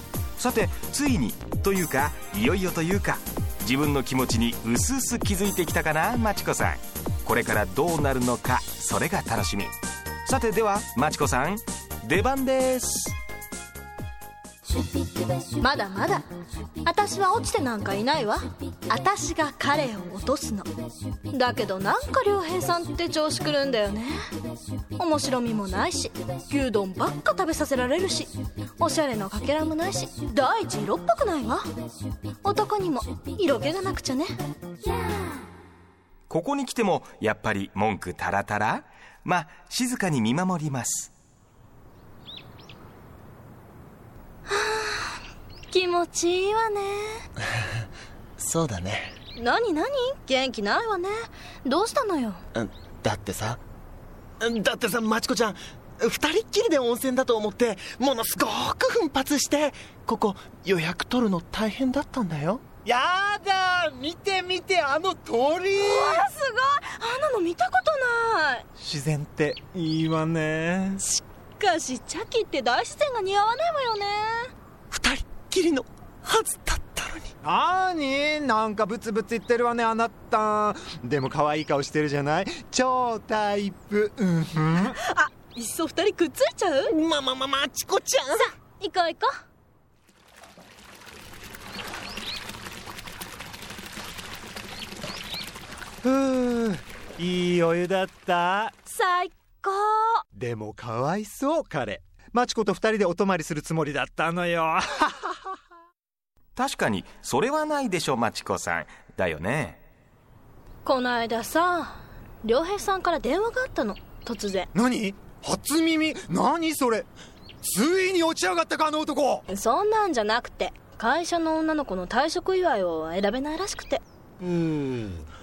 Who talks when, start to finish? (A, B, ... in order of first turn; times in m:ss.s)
0:00.4-0:09.7 A
0:10.3-0:13.2 A
0:15.6-0:16.3 B
0:16.8-0:20.7 B
0:21.3-0:24.2 B
0:25.0-0:31.6 B
0:32.4-0:34.3 B
0:36.3-0:41.1 A
0:44.5-0:45.2 B
0:45.7-0:47.2 B
0:48.4-0:49.1 C
0:49.4-0:52.4 B
0:52.5-0:53.6 C
0:54.4-1:02.6 C
1:02.8-1:06.3 D
1:05.8-1:08.6 B
1:08.8-1:11.0 D
1:11.0-1:14.5 B
1:14.9-1:17.3 C
1:17.4-1:25.0 D
1:24.8-1:27.0 B
1:26.9-1:28.5 C
1:28.8-1:29.3 B
1:36.0-1:38.7 D
1:38.9-1:40.2 B
1:40.4-1:45.5 D
1:46.6-1:49.8 A
1:50.8-1:54.7 B
1:54.7-1:57.1 D
1:57.6-1:59.5 D
1:59.5-2:04.0 B
2:04.5-2:05.1 D